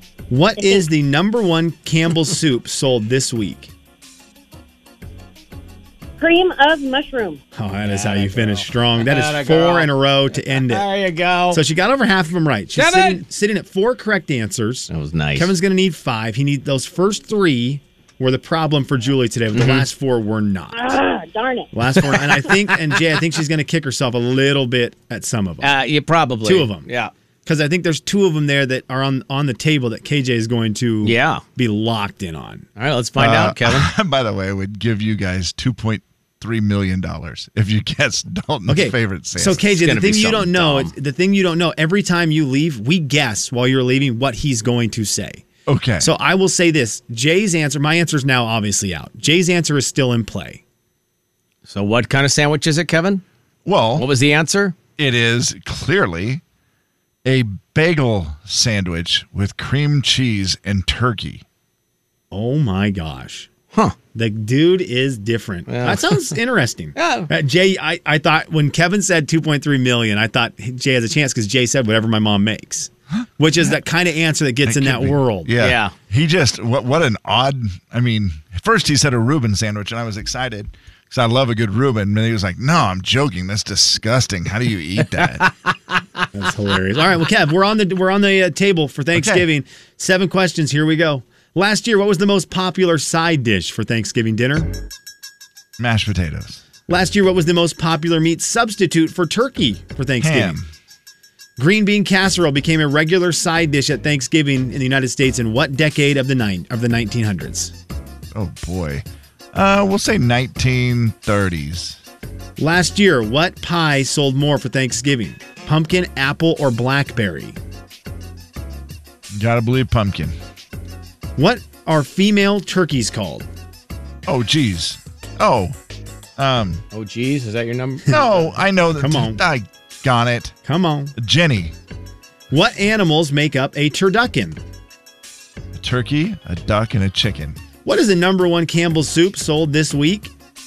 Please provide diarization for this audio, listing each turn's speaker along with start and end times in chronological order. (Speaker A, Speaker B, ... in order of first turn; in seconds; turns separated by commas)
Speaker A: 0.3-3.7, Speaker B: 0.6-0.9, Speaker B: 6.2-7.4, Speaker A: 7.6-10.9, Speaker C: 7.8-11.6, Speaker A: 11.5-20.9, Speaker C: 12.8-13.2, Speaker C: 14.9-15.5, Speaker C: 19.5-19.9, Speaker B: 20.7-21.7, Speaker A: 21.7-25.8, Speaker C: 25.6-27.1, Speaker A: 26.4-26.9, Speaker A: 27.4-32.7, Speaker C: 31.0-31.4, Speaker C: 32.8-33.9, Speaker D: 33.2-39.6, Speaker A: 38.7-45.5, Speaker C: 39.7-40.9, Speaker D: 45.7-46.1, Speaker A: 46.0-50.6, Speaker C: 51.7-53.2, Speaker D: 53.6-54.1, Speaker C: 54.0-54.8, Speaker D: 55.0-56.4, Speaker D: 57.2-61.4, Speaker A: 62.3-63.5, Speaker A: 64.2-75.5, Speaker C: 65.7-66.3, Speaker C: 67.0-67.3, Speaker D: 74.6-85.5, Speaker C: 75.6-75.9, Speaker C: 85.2-86.2, Speaker A: 86.3-94.7, Speaker D: 89.1-89.5, Speaker D: 95.8-96.6, Speaker A: 96.9-100.6, Speaker D: 100.2-100.7, Speaker A: 101.6-107.7, Speaker D: 108.3-112.0, Speaker A: 112.6-117.6, Speaker D: 119.3-120.4, Speaker A: 121.4-123.5, Speaker D: 124.3-125.8, Speaker D: 126.4-126.8, Speaker C: 126.9-128.2, Speaker D: 128.1-130.6, Speaker A: 129.0-129.4, Speaker A: 130.7-131.2, Speaker D: 131.2-131.7, Speaker A: 132.5-134.6, Speaker D: 135.8-137.6, Speaker A: 137.8-140.3